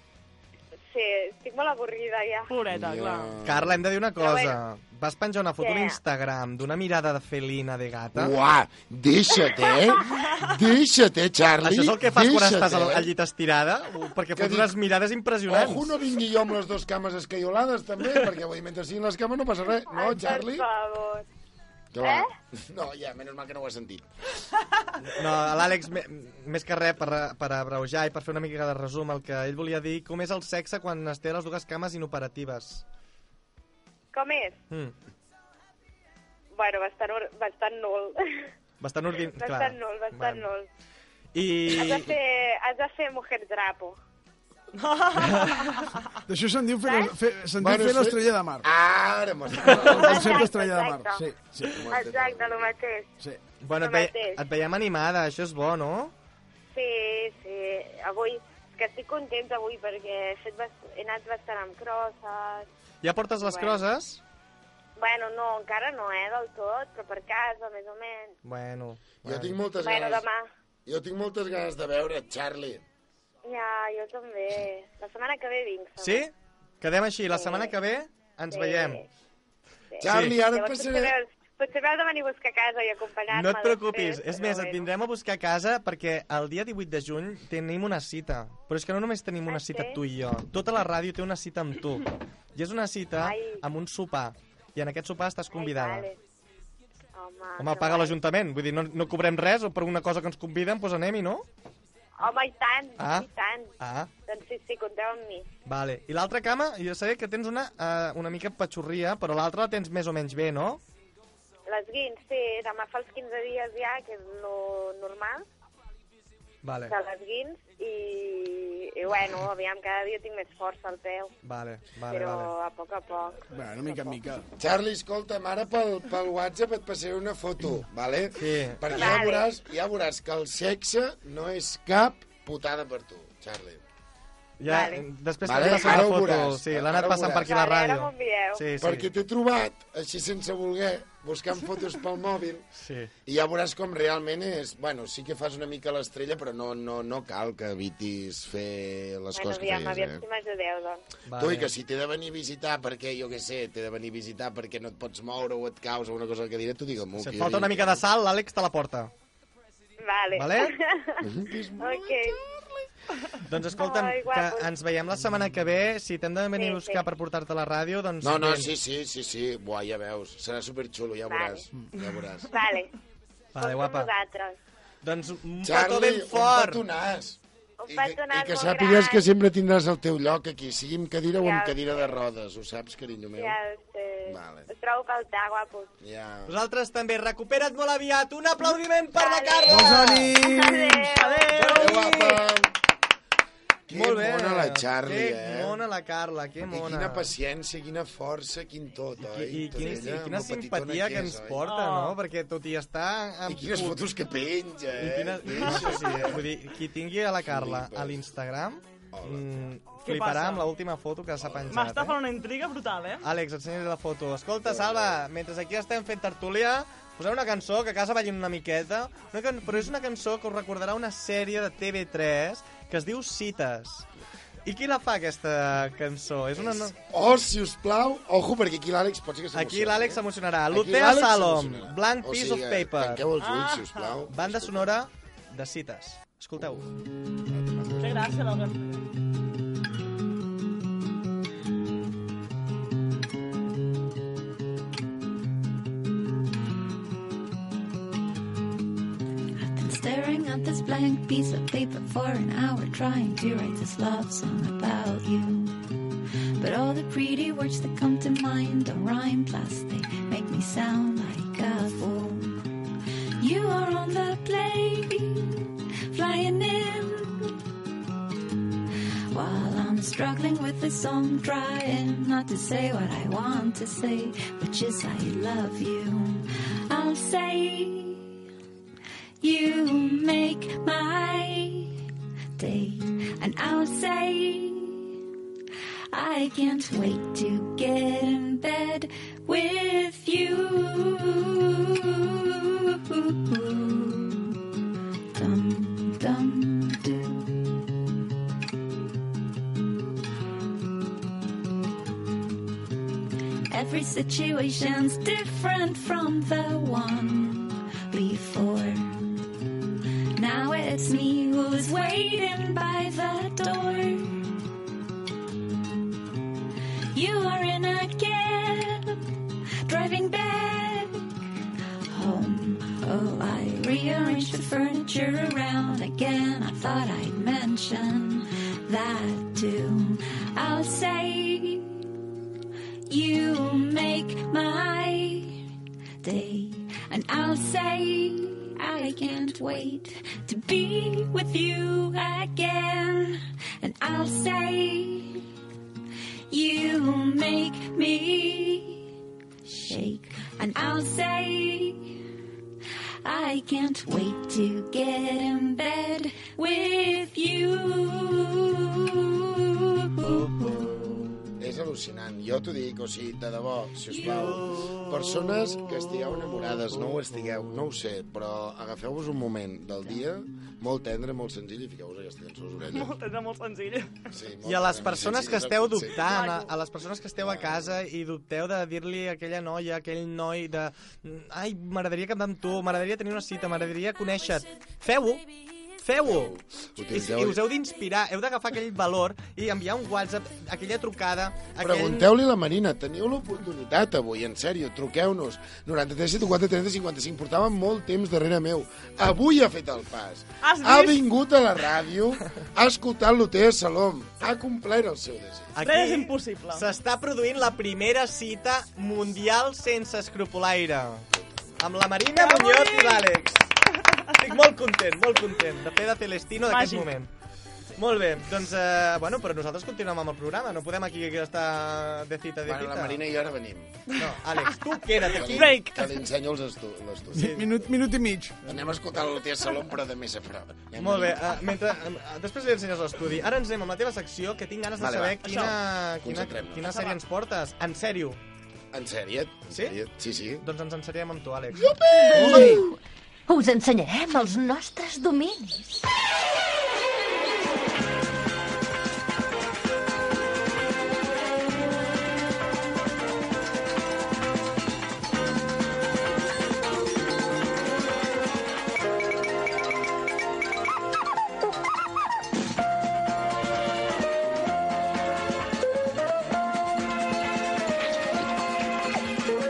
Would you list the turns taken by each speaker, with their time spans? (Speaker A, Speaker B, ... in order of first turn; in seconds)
Speaker A: 0.9-2.5, 4.2-4.6, 5.6-6.0, 9.7-10.0, 19.9-21.2, 22.0-22.3, 34.1-34.6, 36.6-38.5, 39.4-40.7, 41.7-44.0, 46.8-47.1, 50.0-51.3, 51.9-53.1, 53.8-54.4, 56.7-62.7, 63.4-63.8, 65.0-68.3, 69.8-70.5, 73.5-76.3, 77.3-77.8, 78.5-79.1, 79.9-84.9, 89.5-90.0, 93.2-93.6, 95.5-96.2, 97.1-98.2, 102.2-103.7, 104.3-105.5, 111.7-115.5, 116.9-121.3, 122.1-123.5, 128.9-129.5, 134.7-135.1, 137.4-138.6, 149.3-151.0, 160.0-162.4, 163.8-164.7, 166.6-167.0, 171.3-171.6, 172.5-172.9, 173.6-174.6, 177.8-179.2, 181.4-182.1, 183.4-185.9, 189.1-191.7
Speaker B: 2.5-3.3, 44.8-46.0, 191.1-192.4, 201.6-202.2, 205.6-206.1, 210.1-210.7, 211.7-213.2, 233.4-234.2, 238.0-239.0, 372.9-374.2, 376.2-376.7, 400.6-401.2, 405.8-406.9, 412.4-413.3, 416.7-417.1, 425.4-426.1, 436.9-437.2
Speaker C: 2.7-3.8, 8.1-13.1, 14.4-14.8, 15.5-20.7, 21.9-24.1, 47.6-50.5, 51.6-52.8, 69.2-70.3, 70.9-72.8, 80.0-81.2, 124.6-133.8, 135.4-137.5, 138.8-142.7, 143.3-150.2, 151.3-158.0, 161.2-162.8, 168.2-172.6, 175.6-183.6, 184.3-184.7, 186.0-186.6, 191.6-192.7, 193.9-195.8, 196.6-201.6, 203.5-206.4, 207.4-208.2, 209.1-209.7, 211.4-211.8, 214.6-215.2, 226.6-235.0, 236.6-236.9, 237.5-238.4, 361.6-373.2, 374.3-376.4, 377.4-378.0, 386.2-387.6, 391.8-405.8, 411.3-412.0, 422.6-424.1, 425.2-427.9, 428.7-431.6, 435.0-437.0, 438.9-440.6, 441.8-442.9
Speaker D: 3.4-8.4, 11.6-15.9, 25.1-32.8, 38.8-40.5, 41.3-42.1, 53.6-56.1, 63.0-64.2, 68.4-69.6, 76.0-79.0, 80.0-80.4, 83.3-96.1, 97.6-101.5, 103.0-103.3, 103.8-104.1, 105.7-110.8, 116.6-117.0, 121.4-122.5, 128.4-129.2, 134.6-139.1, 142.8-143.1, 151.3-151.7, 157.2-159.1, 160.3-160.7, 163.4-168.7, 173.6-174.1, 175.0-176.8, 186.5-190.3, 193.9-197.3, 199.2-204.0, 205.0-212.2, 213.2-224.1, 224.7-226.9, 229.5-233.2, 234.3-236.9, 364.2-366.4, 374.6-385.4, 386.0-386.6, 387.1-392.3, 405.8-411.3, 411.8-413.6, 414.3-417.3, 418.0-423.2, 424.1-425.8, 431.0-438.4, 440.6-442.8
Speaker E: 46.3-48.7, 49.7-51.9, 123.5-124.5, 189.7-191.1, 427.3-428.9, 442.3-442.8
Speaker F: 249.6-255.8, 256.6-262.7, 263.4-267.5, 269.3-278.3, 279.4-281.9, 282.6-285.1, 286.1-294.6, 295.3-297.6, 303.7-309.3, 310.4-314.4, 317.1-319.3, 319.9-321.3, 322.1-332.1, 333.1-335.7, 336.2-345.5, 346.5-349.1, 349.6-352.2, 353.2-360.7
Speaker G: 442.5-442.8, 443.5-446.0